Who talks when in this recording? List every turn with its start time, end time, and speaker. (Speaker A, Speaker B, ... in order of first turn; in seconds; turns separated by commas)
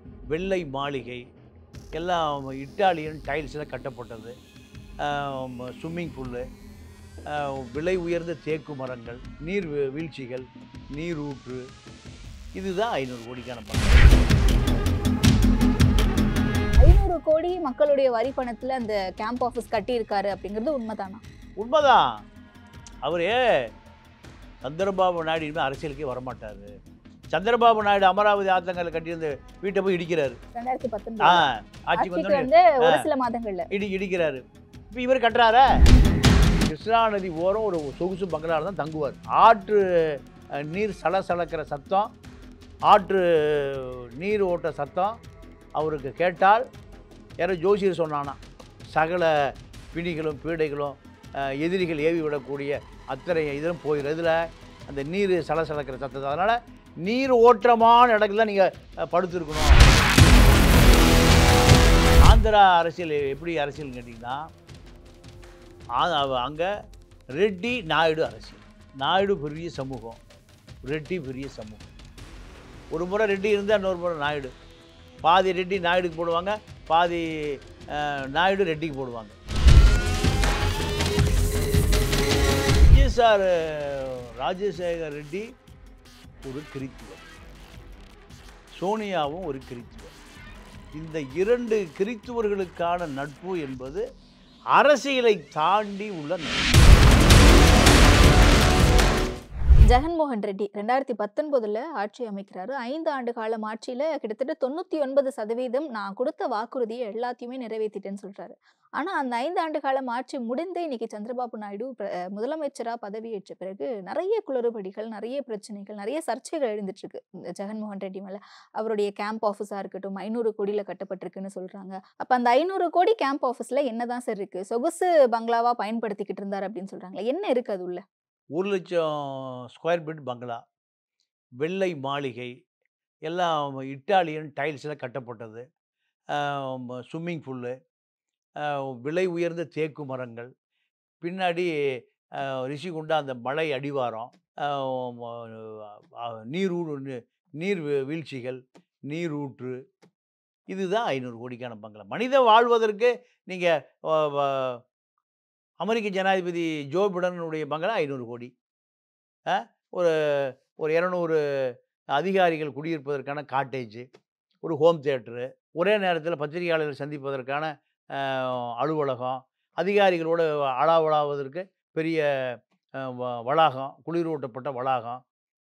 Speaker A: 0.3-1.2, Speaker A: 1.9-4.3, Speaker A: 5.0-6.4, Speaker A: 7.3-11.6, Speaker A: 12.6-14.2, Speaker B: 16.8-21.2, Speaker A: 21.6-22.1, Speaker A: 23.0-23.4, Speaker A: 24.6-26.7, Speaker A: 27.3-30.4, Speaker B: 30.5-33.7, Speaker A: 31.2-33.0, Speaker A: 33.7-34.4, Speaker A: 34.9-35.8, Speaker A: 36.7-39.8, Speaker A: 40.6-42.1, Speaker A: 42.9-45.1, Speaker A: 45.8-46.6, Speaker A: 47.4-48.4, Speaker A: 48.9-49.3, Speaker A: 49.9-59.9, Speaker A: 62.2-64.4, Speaker A: 66.0-66.7, Speaker A: 67.4-70.2, Speaker A: 70.8-71.8, Speaker A: 72.9-74.5, Speaker A: 75.2-79.3, Speaker A: 82.9-85.5, Speaker A: 86.4-87.2, Speaker A: 88.8-90.1, Speaker A: 90.9-94.0, Speaker A: 94.7-96.7, Speaker B: 99.9-128.0, Speaker A: 128.5-130.6, Speaker A: 131.6-132.5, Speaker A: 133.2-135.6, Speaker A: 136.3-137.7, Speaker A: 138.6-140.5, Speaker A: 141.2-141.7, Speaker A: 142.4-149.8, Speaker A: 150.7-154.8, Speaker A: 155.8-158.5, Speaker A: 159.5-161.4, Speaker A: 162.1-164.1, Speaker A: 164.6-172.2, Speaker A: 173.0-175.2